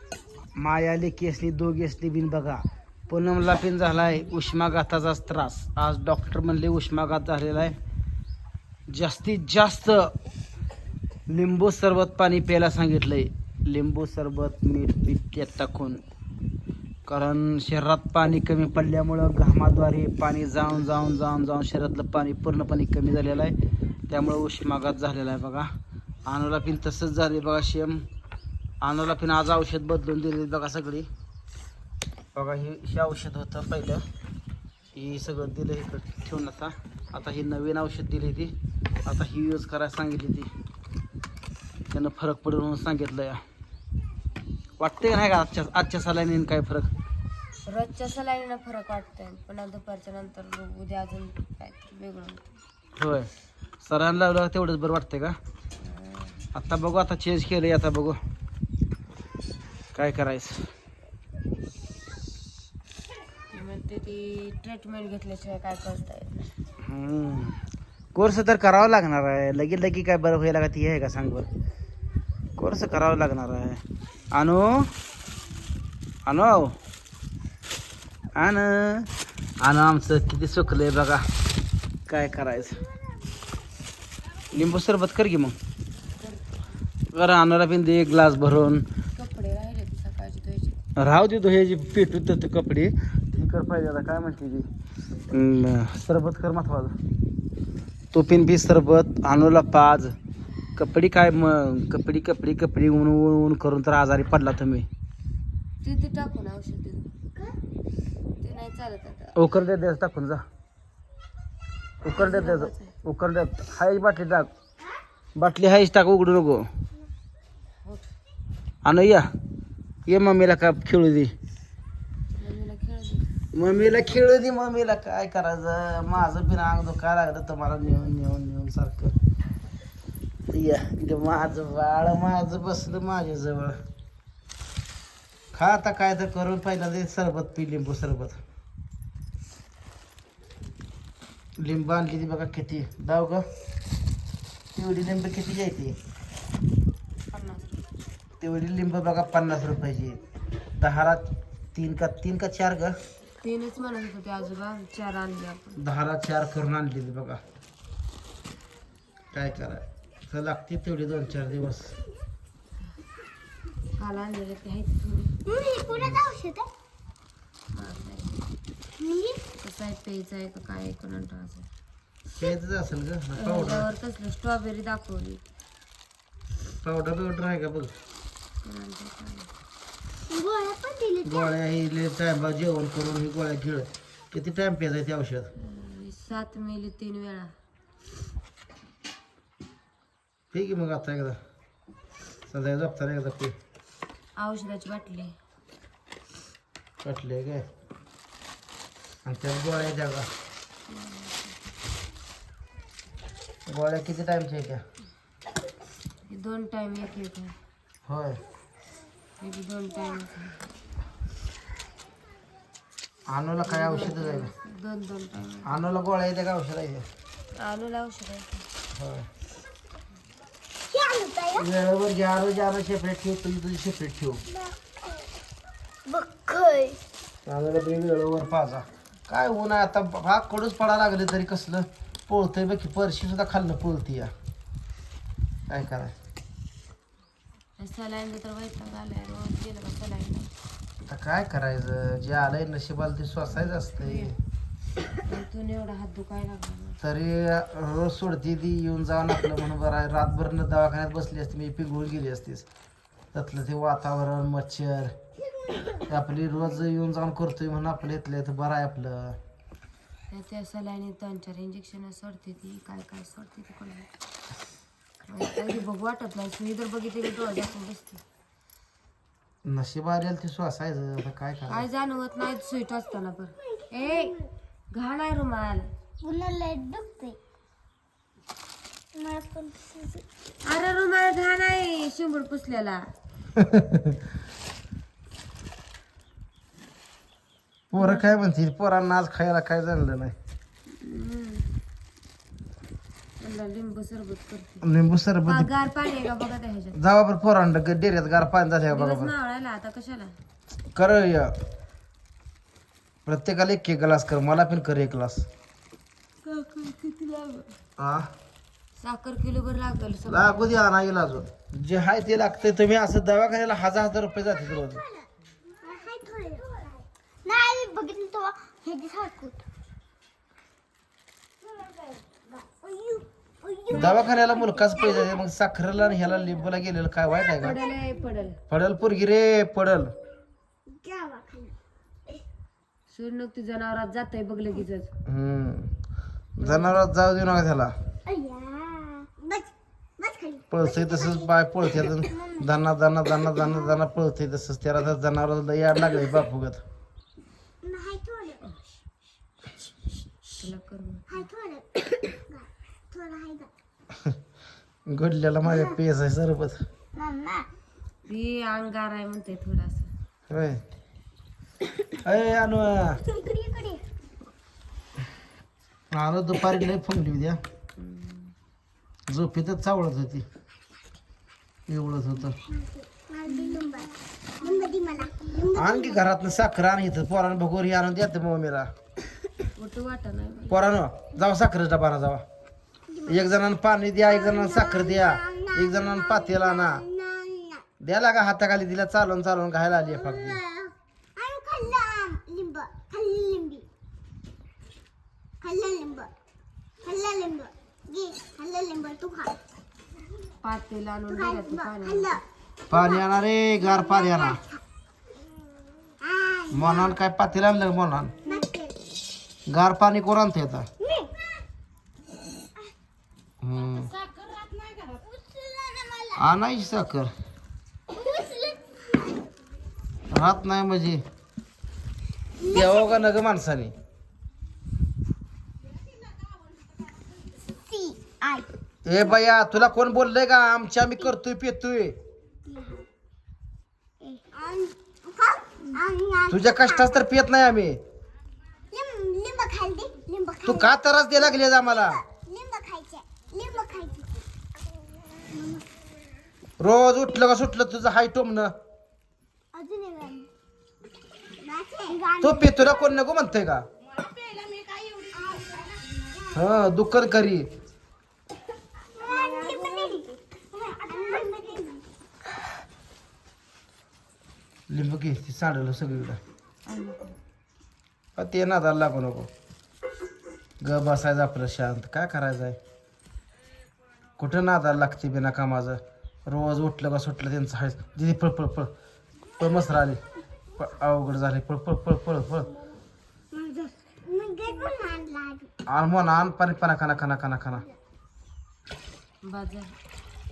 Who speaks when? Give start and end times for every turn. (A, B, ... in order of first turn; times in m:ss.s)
0:00.6-0:07.8 A
0:08.9-0:10.1 A
0:11.3-0:16.0 A
0:17.1-0:23.6 A
0:24.1-0:25.7 A
0:26.3-0:28.0 A
0:28.8-0:31.1 A
0:32.4-0:34.0 A
0:35.0-0:38.5 A
0:39.1-0:40.5 A
0:41.9-0:43.4 A
0:44.8-0:46.9 A
0:47.6-0:52.4 B
0:53.0-0:53.3 A
0:53.8-0:55.4 A
0:55.8-0:56.4 B
0:56.5-0:58.2 A
0:59.9-1:00.6 A
1:03.5-1:06.5 B
1:06.8-1:07.6 A
1:08.2-1:11.5 A
1:12.6-1:14.9 A
1:16.3-1:16.8 A
1:18.4-1:19.1 A
1:19.6-1:21.2 A
1:22.1-1:22.8 A
1:24.5-1:25.6 A
1:26.2-1:26.6 B
1:27.1-1:28.8 A
1:29.2-1:30.8 B
1:31.0-1:34.7 A
1:35.3-1:36.9 A
1:38.1-1:40.2 A
1:40.8-1:44.9 A
1:45.8-1:47.1 B
1:48.4-1:49.4 B
1:49.4-1:50.4 A
1:52.0-1:54.5 A
1:52.1-1:53.0 B
1:55.4-1:56.7 A
1:58.8-1:59.3 A
2:00.1-2:01.3 A
2:02.4-2:03.3 B
2:03.5-2:09.1 A
2:10.5-2:13.8 A
2:15.5-2:18.4 A
2:21.6-2:23.4 A
2:24.8-2:26.0 A
2:27.3-2:27.7 B
2:28.4-2:30.2 A
2:30.8-2:33.0 A
2:33.4-2:35.8 B
2:35.8-2:37.4 A
2:39.3-2:42.0 A
2:44.0-2:45.4 B
2:45.5-2:46.7 C
2:46.0-2:46.3 A
2:47.7-2:48.4 B
2:49.0-2:49.4 C
2:49.6-2:51.7 B
2:52.4-2:53.9 A
2:53.4-2:55.4 B
2:56.8-2:57.9 A
2:58.6-2:59.5 B
3:00.3-3:01.5 C
3:01.2-3:05.5 A
3:05.6-3:07.5 B
3:10.5-3:11.4 A
3:12.5-3:13.6 A
3:14.4-3:15.4 B
3:17.0-3:17.6 A
3:19.2-3:20.3 A
3:20.9-3:21.5 B
3:23.7-3:24.8 A
3:26.3-3:27.6 B
3:28.1-3:28.4 A
3:29.4-3:30.7 B
3:33.3-3:34.5 A
3:33.6-3:35.8 B
3:35.7-3:37.1 A
3:37.6-3:38.7 B
3:39.0-3:39.3 A
3:40.9-3:41.7 C
3:41.6-3:44.4 A
3:44.5-3:45.0 C
3:46.1-3:47.0 C
3:47.5-3:54.3 A
3:55.7-3:56.1 A
3:57.8-4:00.5 B
4:01.1-4:04.3 A
4:03.6-4:04.4 B
4:05.2-4:07.0 B
4:07.0-4:12.7 A
4:13.3-4:15.1 A
4:16.1-4:19.4 A
4:20.3-4:24.1 B
4:25.3-4:28.2 B
4:29.6-4:31.8 A
4:31.7-4:34.4 B
4:33.7-4:34.5 C
4:34.9-4:35.9 B
4:36.2-4:37.4 C
4:39.2-4:40.2 C
4:40.6-4:43.0 B
4:43.6-4:44.0 A
4:47.9-4:50.4 A
4:48.0-4:48.3 B
4:50.9-4:51.7 B
4:53.4-4:54.8 B
4:54.8-4:55.7 A
4:55.5-4:57.0 B
4:56.9-4:59.3 A
4:58.9-5:00.4 B
5:01.0-5:01.5 A
5:03.3-5:05.5 A
5:06.4-5:07.7 B
5:08.0-5:08.3 A
5:09.0-5:10.8 B
5:10.3-5:15.0 A
5:15.8-5:19.6 C
5:21.7-5:25.4 C
5:23.9-5:24.4 B
5:23.9-5:27.8 A
5:27.6-5:28.6 B
5:27.6-5:28.0 C
5:28.7-5:30.1 A
5:30.9-5:31.7 C
5:33.1-5:35.1 B
5:35.3-5:35.9 A
5:36.6-5:37.9 A
5:36.6-5:37.1 B
5:38.3-5:42.7 C
5:40.7-5:46.8 A
5:43.5-5:44.0 C
5:47.8-5:48.6 C
5:50.6-5:51.4 B
5:51.3-5:53.7 C
5:55.1-5:56.8 A
5:57.2-5:57.7 C
5:58.3-6:00.1 B
6:00.5-6:00.8 A
6:02.2-6:03.2 A
6:03.2-6:04.0 C
6:06.1-6:07.6 A
6:08.0-6:08.5 B
6:09.3-6:10.5 A
6:11.9-6:12.6 A
6:12.6-6:16.2 C
6:13.5-6:14.0 B
6:15.7-6:18.9 A
6:19.8-6:20.9 B
6:20.7-6:22.4 A
6:23.1-6:23.5 C
6:23.3-6:27.0 A
6:24.2-6:27.8 C
6:28.0-6:30.6 A
6:30.1-6:33.9 C
6:35.6-6:36.3 C
6:37.0-6:39.6 C
6:40.6-6:42.4 B
6:41.3-6:43.3 C
6:42.9-6:44.6 A
6:43.8-6:44.8 C
6:46.2-6:47.2 C
6:46.7-6:48.4 A
6:48.4-6:49.0 C
6:49.7-6:50.9 A
6:51.0-6:51.3 C
6:53.6-6:54.1 A
6:54.6-6:56.4 C
6:56.4-6:57.3 A
6:58.1-6:59.0 C
7:00.3-7:01.2 A
7:02.6-7:03.1 C
7:02.6-7:03.9 A
7:07.7-7:08.7 C
7:09.0-7:12.2 A
7:12.7-7:13.1 C
7:14.2-7:17.1 C
7:16.5-7:18.0 A
7:18.9-7:21.0 C
7:20.6-7:22.2 A
7:22.0-7:24.3 C
7:25.4-7:25.8 C
7:26.8-7:28.7 A
7:29.7-7:30.5 C
7:31.6-7:32.8 C
7:32.4-7:33.8 A
7:35.3-7:35.9 C
7:36.5-7:37.7 A
7:39.2-7:42.0 C
7:44.9-7:46.4 A
7:46.9-7:47.4 B
7:48.4-7:49.5 A
7:50.8-7:52.8 A
7:54.4-7:58.9 A
7:59.6-8:00.2 A
8:00.8-8:02.7 A
8:03.5-8:05.7 C
8:05.9-8:07.8 A
8:09.4-8:09.9 B